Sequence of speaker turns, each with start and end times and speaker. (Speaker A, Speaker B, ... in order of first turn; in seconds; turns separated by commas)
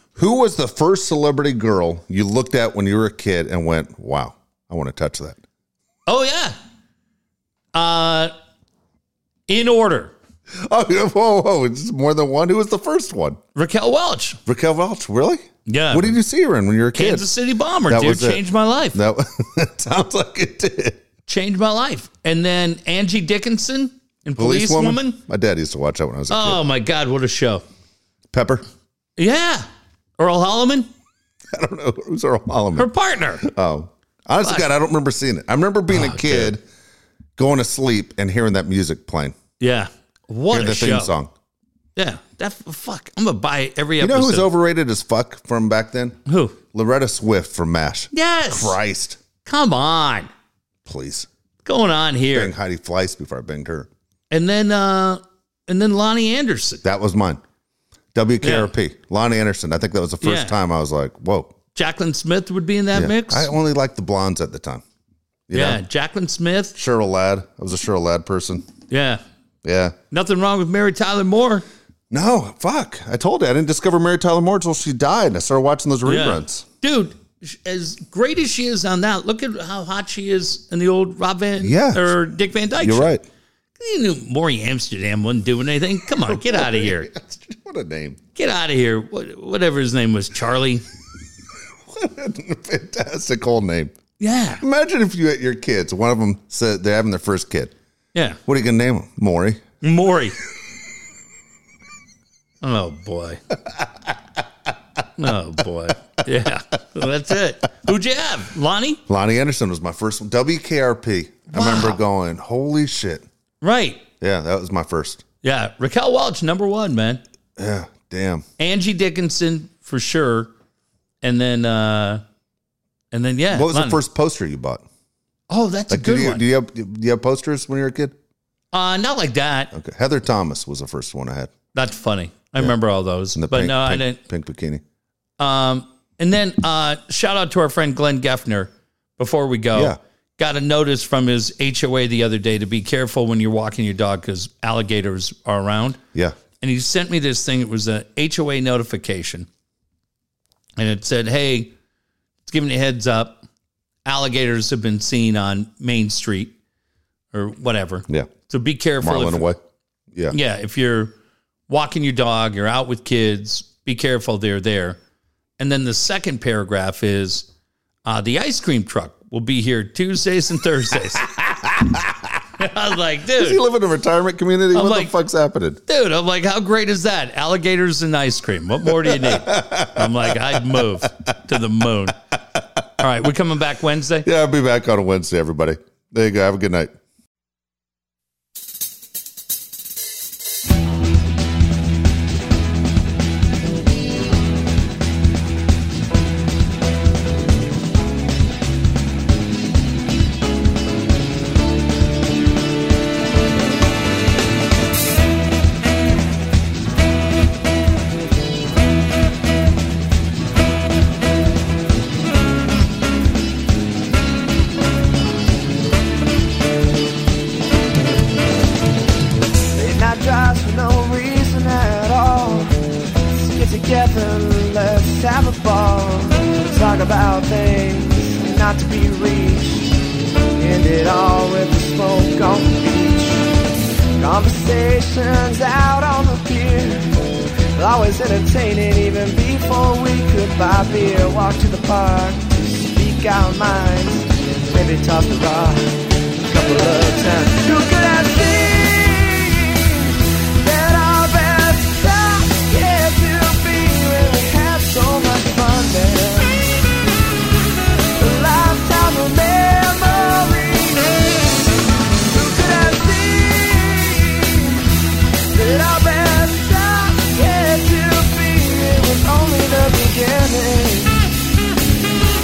Speaker A: 0.1-5.4, Speaker B: 6.1-6.5, Speaker B: 7.7-8.3, Speaker B: 9.5-10.1, Speaker A: 10.6-13.4, Speaker B: 13.5-14.4, Speaker A: 14.4-17.3, Speaker B: 15.7-16.1, Speaker B: 16.9-19.0, Speaker A: 17.9-18.4, Speaker A: 18.9-21.0, Speaker B: 21.2-25.2, Speaker A: 24.4-26.6, Speaker B: 26.3-27.6, Speaker A: 28.3-28.6, Speaker B: 29.2-29.6, Speaker B: 30.2-30.9, Speaker A: 31.5-32.9, Speaker B: 32.8-33.5, Speaker A: 33.4-36.6, Speaker B: 34.4-34.7, Speaker B: 35.9-36.5, Speaker A: 37.4-39.4, Speaker B: 39.6-41.1, Speaker A: 40.5-41.3, Speaker B: 42.0-44.5, Speaker A: 44.0-49.2, Speaker B: 46.3-46.6, Speaker B: 48.1-48.8, Speaker B: 49.4-50.3, Speaker A: 50.9-51.3, Speaker B: 51.6-52.5, Speaker A: 52.3-53.9, Speaker B: 54.3-56.8, Speaker A: 56.8-57.4, Speaker A: 58.1-61.5, Speaker B: 58.4-58.7, Speaker B: 60.2-60.5, Speaker B: 61.7-63.5, Speaker A: 62.9-64.8, Speaker A: 65.5-65.8, Speaker B: 65.5-66.8, Speaker A: 66.8-68.7, Speaker B: 68.9-69.2, Speaker A: 69.6-69.9, Speaker B: 70.1-71.6, Speaker A: 72.1-76.6, Speaker B: 76.0-83.1, Speaker A: 81.6-82.2, Speaker A: 82.8-83.2, Speaker B: 83.8-87.1, Speaker A: 86.2-88.2, Speaker B: 88.3-90.8, Speaker A: 91.9-93.9, Speaker B: 94.2-94.6, Speaker A: 94.6-97.7, Speaker B: 98.1-98.4, Speaker A: 98.5-99.6, Speaker B: 99.8-100.3, Speaker B: 102.6-103.4, Speaker B: 105.2-109.0, Speaker A: 109.1-113.2, Speaker B: 111.5-112.0, Speaker B: 113.6-114.0, Speaker A: 114.2-115.2, Speaker B: 115.4-117.2, Speaker A: 117.6-118.5, Speaker B: 118.6-120.5, Speaker B: 121.2-122.2, Speaker B: 123.1-124.0, Speaker A: 123.5-124.8, Speaker B: 125.5-126.4, Speaker A: 125.9-128.1, Speaker B: 128.7-129.7, Speaker A: 129.7-131.5, Speaker B: 131.7-134.2, Speaker A: 133.3-134.8, Speaker B: 135.4-146.0, Speaker B: 146.6-149.5, Speaker B: 150.8-151.7, Speaker B: 152.4-153.4, Speaker B: 154.0-156.5, Speaker B: 157.3-159.5, Speaker A: 159.0-159.6, Speaker B: 160.3-161.1, Speaker B: 161.7-165.0, Speaker B: 165.6-167.5, Speaker B: 168.1-171.3, Speaker A: 171.2-172.4, Speaker B: 172.6-173.6, Speaker A: 173.3-175.8, Speaker B: 174.7-175.1, Speaker B: 175.9-182.2, Speaker A: 178.9-181.1, Speaker B: 183.0-184.3, Speaker A: 184.2-186.9, Speaker C: 219.7-230.0, Speaker C: 230.5-233.5, Speaker C: 234.2-256.8, Speaker C: 258.2-261.6, Speaker C: 262.3-264.9, Speaker C: 265.5-271.3